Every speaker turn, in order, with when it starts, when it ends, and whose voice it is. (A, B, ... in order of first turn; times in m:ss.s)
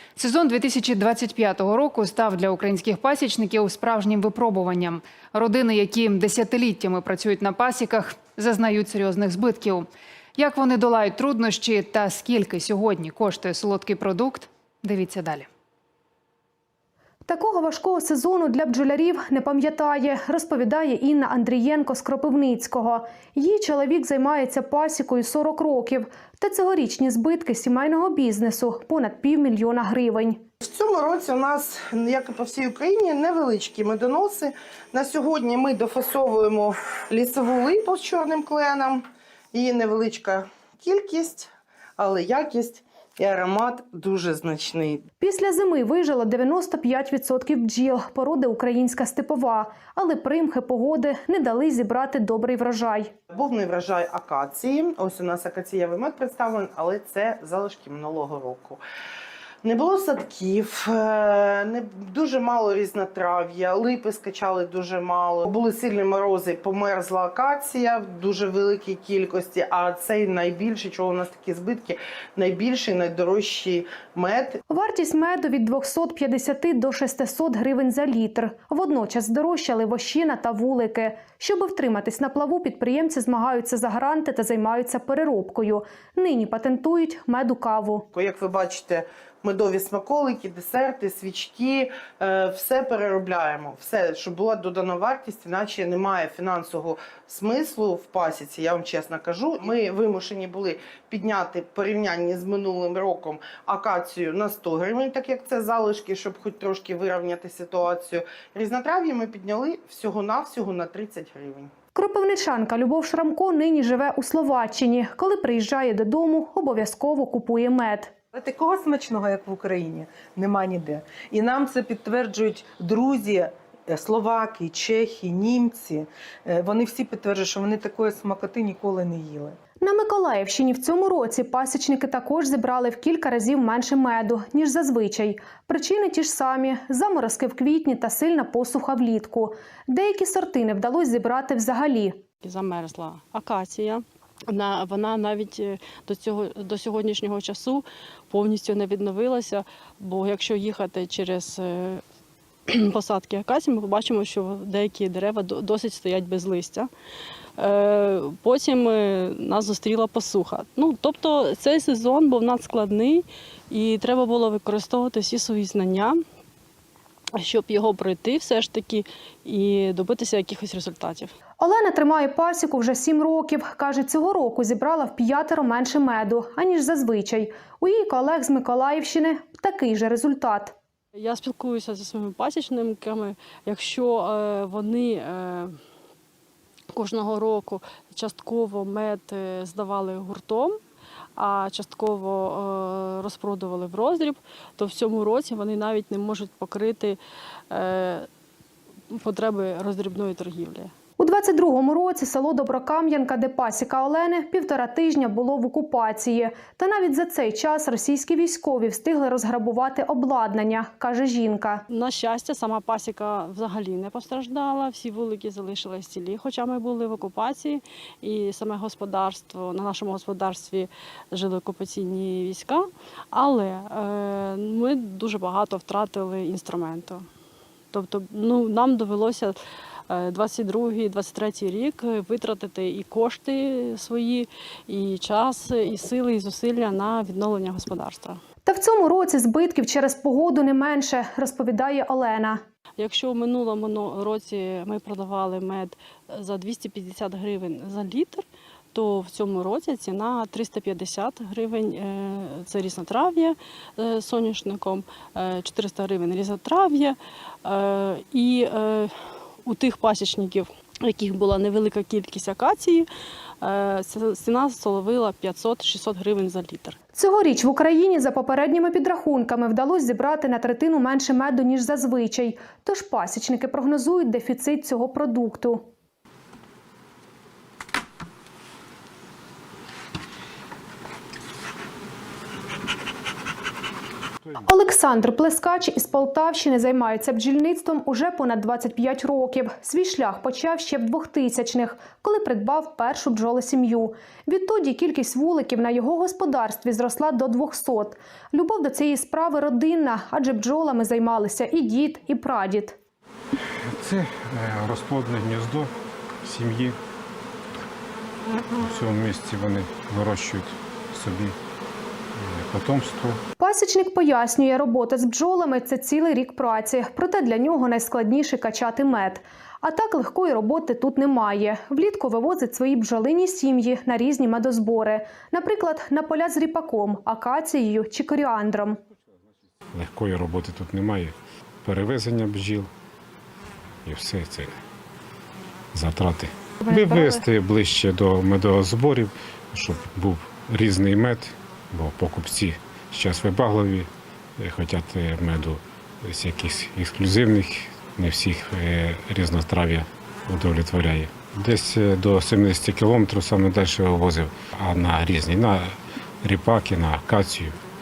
0:00.2-0:15.5 A
0:17.2-0:30.4 B
0:30.6-0:39.0 C
0:39.5-0:45.0 C
0:45.2-0:53.1 B
0:53.3-0:58.8 C
0:59.6-1:14.6 C
1:14.7-1:28.1 B
1:28.1-1:51.7 C
1:51.9-1:58.1 B
1:58.3-2:09.6 D
2:09.8-2:22.2 B
2:22.4-2:32.0 E
2:32.7-2:36.9 E
2:37.6-2:46.2 E
2:47.4-2:51.3 E
2:51.6-3:00.8 B
3:01.1-3:05.8 E
3:06.9-3:10.8 E
3:11.4-3:18.3 E
3:19.1-3:20.9 E
3:21.2-3:31.8 B
3:31.9-3:47.2 E
3:47.9-3:49.6 E
3:50.1-3:58.4 E
3:58.6-4:02.6 B
4:03.0-4:19.1 E
4:19.6-4:23.1 E
4:23.6-4:27.0 E
4:27.1-4:35.9 B
4:44.6-5:03.0 B
5:03.9-5:05.9 F
5:06.4-5:07.0 F
5:08.8-5:11.6 F
5:12.4-5:13.4 F
5:13.6-5:29.0 B
5:29.9-5:32.9 F
5:34.0-5:34.8 F
5:35.9-5:57.8 F